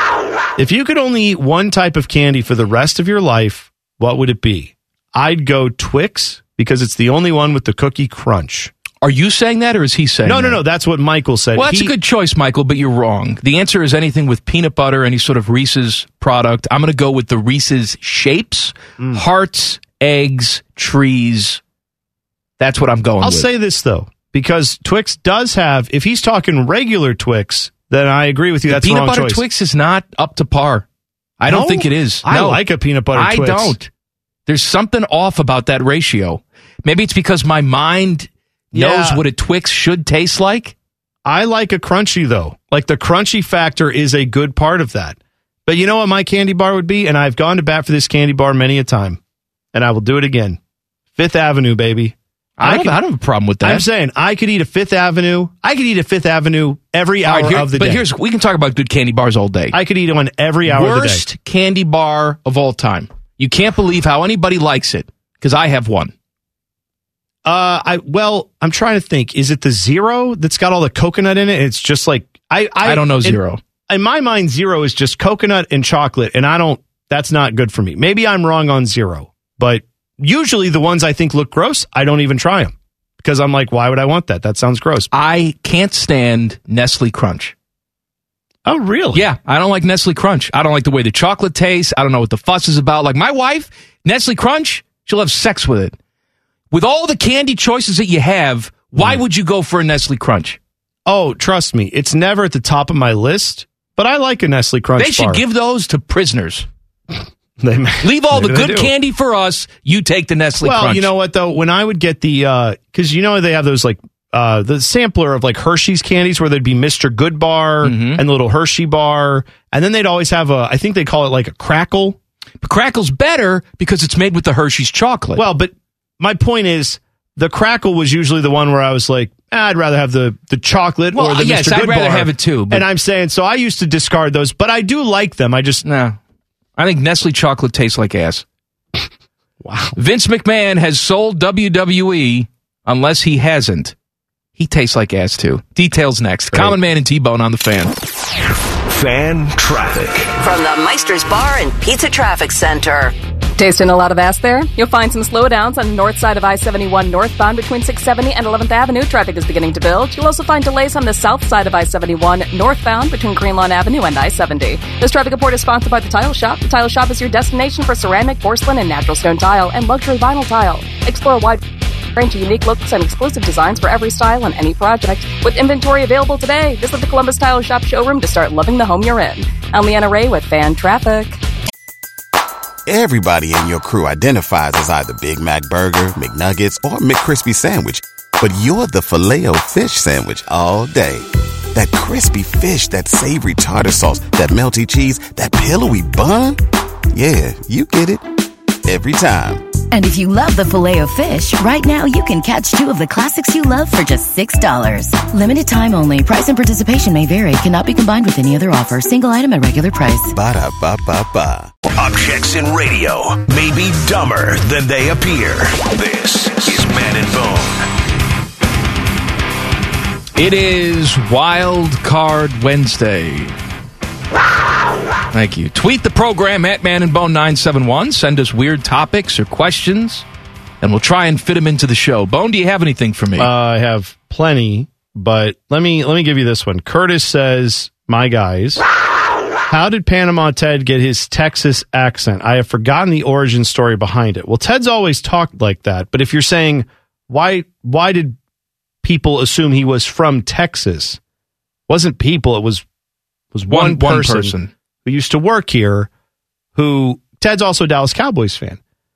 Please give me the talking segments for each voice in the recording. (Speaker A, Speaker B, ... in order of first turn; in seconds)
Speaker A: 0.6-8.7, 10.2-11.9, 23.2-29.4, 31.4-33.8, 38.7-39.2, 41.2-49.2, 49.7-50.6, 51.1-53.0, 53.6-58.0, 59.7-61.2, 67.4-85.1, 88.6-89.2, 101.0-105.4, 107.6-108.9, 110.6-122.2, 125.3-135.8, 139.6-140.0, 146.5-146.8, 233.4-238.8, 239.7-248.4, 249.0-251.2, 251.9-252.8, 253.5-256.1, 256.7-258.8
Speaker B: 9.0-10.6, 11.5-21.6, 22.6-23.5, 28.7-30.8, 31.4-32.6, 33.1-33.9, 34.5-40.7, 52.6-53.9, 57.2-59.8, 60.6-66.1, 72.8-73.6, 85.1-87.5, 89.1-96.0, 96.7-100.6, 105.0-106.7, 108.0-111.1, 117.8-118.2, 122.6-125.4, 131.1-132.8, 135.8-136.2, 136.8-138.4, 139.9-143.9, 144.6-147.9, 220.3-223.6, 225.3-230.2, 230.8-233.5, 253.7-254.7
Speaker C: 148.9-150.3, 211.9-217.8
Speaker D: 150.4-153.1
Speaker E: 153.6-171.6, 172.2-181.4
Speaker F: 182.9-196.6, 197.1-198.2, 198.8-199.6, 210.3-211.7
Speaker G: 199.9-210.3